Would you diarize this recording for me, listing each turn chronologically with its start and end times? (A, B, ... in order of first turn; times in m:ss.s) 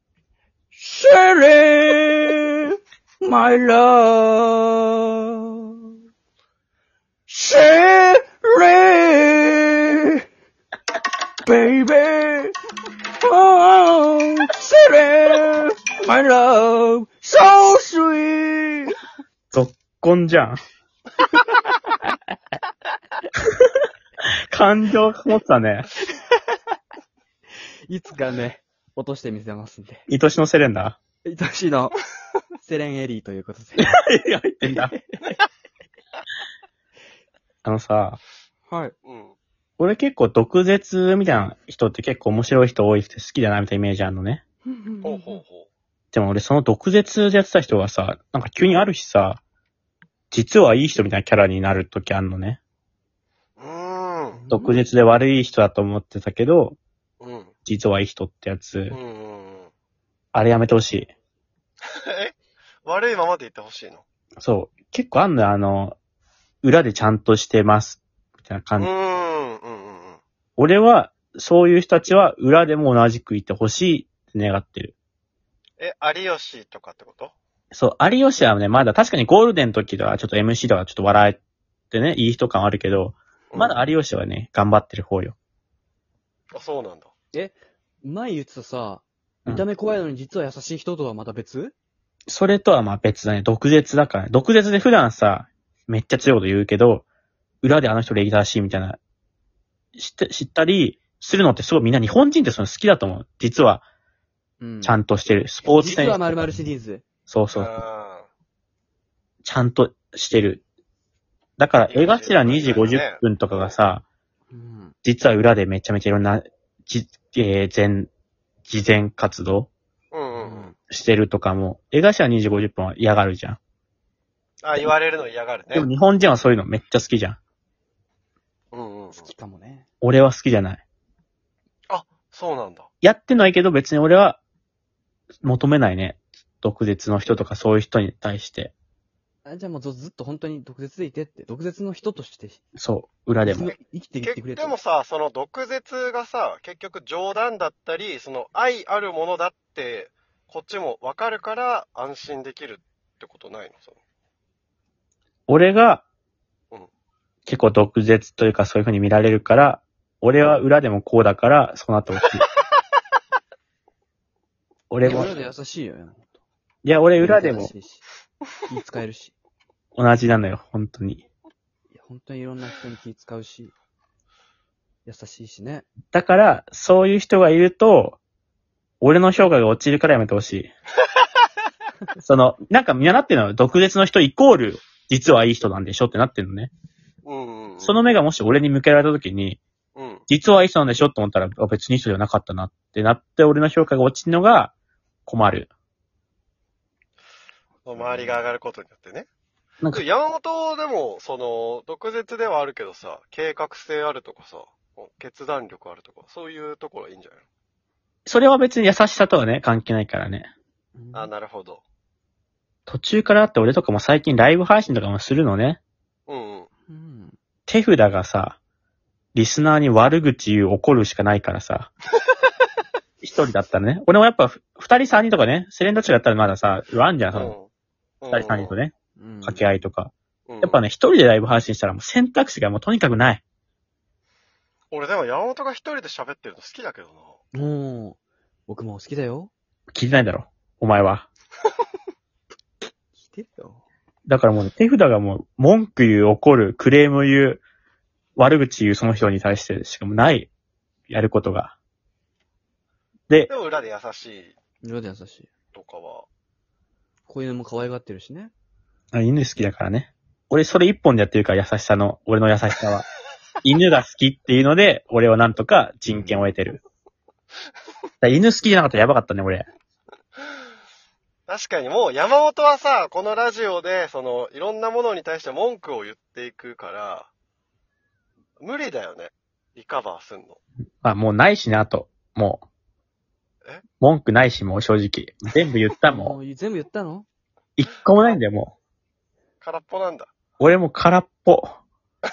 0:00.7-0:02.6 A
0:03.2-0:05.6 A
0:07.3-0:10.1 A
0:11.4-0:12.5 A
0:13.2-0:18.9 A
0:19.5-0:20.6 B
0:24.5-0:25.9 B
0:27.9-0:30.0 A
0:30.1-0:31.0 B
0:31.2-0:32.0 A
0:32.6-0:33.9 A
0:33.8-0:34.9 B
0:34.6-0:35.3 A
0:37.6-0:38.2 B
0:38.7-0:38.9 A
0:39.0-0:39.4 C
0:39.8-0:44.4 B
0:44.7-0:45.4 A
0:45.0-0:45.7 C
0:46.1-0:49.4 B
0:50.3-0:52.6 B
0:53.6-0:54.4 C
0:54.3-0:54.8 A
0:54.5-0:56.8 B
0:57.2-0:57.5 C
0:57.6-0:59.0 B
0:58.9-0:59.7 C
1:00.3-1:01.1 B
1:01.9-1:04.0 C
1:04.4-1:06.0 B
1:06.6-1:08.9 B
1:08.8-1:10.2 C
1:10.6-1:14.9 B
1:15.8-1:17.3 C
1:17.7-1:21.4 B
1:21.9-1:25.4 B
1:23.5-1:23.8 C
1:26.5-1:27.1 C
1:27.3-1:31.7 A
1:32.3-1:37.0 B
1:37.6-1:39.0 B
1:40.0-1:43.8 B
1:44.6-1:45.0 A
1:44.8-1:46.3 B
1:45.6-1:47.0 A
1:47.3-1:47.8 B
1:47.5-1:48.3 C
1:49.4-1:50.6 B
1:51.6-1:54.0 B
1:51.9-1:53.2 C
1:54.5-1:55.0 A
1:55.0-1:58.1 B
1:58.6-1:59.7 B
2:00.1-2:00.7 C
2:00.4-2:00.7 A
2:00.9-2:03.6 B
2:04.6-2:05.9 C
2:05.7-2:07.4 B
2:08.7-2:09.3 C
2:09.1-2:09.8 A
2:10.0-2:10.8 B
2:11.9-2:12.9 C
2:13.0-2:14.4 B
2:15.4-2:18.7 B
2:19.4-2:22.6 A
2:22.8-2:23.7 B
2:23.4-2:24.8 A
2:24.2-2:34.0 C
2:35.5-2:36.0 B
2:37.4-2:42.4 B
2:44.9-2:45.3 B
2:45.0-2:46.4 A
2:46.8-2:47.7 B
2:47.2-2:48.0 A
2:48.7-2:49.3 A
2:50.0-2:51.2 B
2:51.9-2:53.7 A
2:55.0-2:55.9 A
2:56.1-2:58.2 B
2:59.0-3:00.7 B
3:02.2-3:06.7 B
3:07.2-3:08.0 C
3:07.8-3:09.6 B
3:09.9-3:10.2 C
3:10.3-3:14.7 B
3:15.2-3:15.7 B
3:17.8-3:19.3 C
3:19.8-3:27.4 C
3:28.2-3:30.5 B
3:31.0-3:31.3 A
3:31.1-3:31.8 C
3:32.9-3:35.8 B
3:36.3-3:36.7 C
3:36.9-3:37.4 A
3:37.7-3:38.6 B
3:39.3-3:41.9 B
3:43.2-3:47.5 B
3:47.3-3:47.7 C
3:48.2-3:48.7 C
3:48.3-3:48.9 B
3:49.2-3:49.7 A
3:49.4-3:53.4 B
3:50.5-3:50.8 C
3:54.9-3:57.4 C
3:57.5-3:59.5 A
3:59.9-4:01.2 B
4:03.2-4:03.8 A
4:04.3-4:07.6 B
4:08.4-4:10.5 B
4:11.1-4:11.7 B
4:13.5-4:14.6 C
4:14.8-4:15.5 A
4:15.7-4:16.2 C
4:17.3-4:18.5 A
4:19.1-4:23.0 B
4:23.6-4:26.8 B
4:26.1-4:26.5 A
4:28.2-4:29.7 B
4:31.5-4:37.3 C
4:38.6-4:40.6 C
4:41.0-4:42.6 B
4:44.0-4:46.4 B
4:46.0-4:47.3 A
4:47.8-4:48.7 B
4:49.6-4:50.3 C
4:50.6-4:51.8 B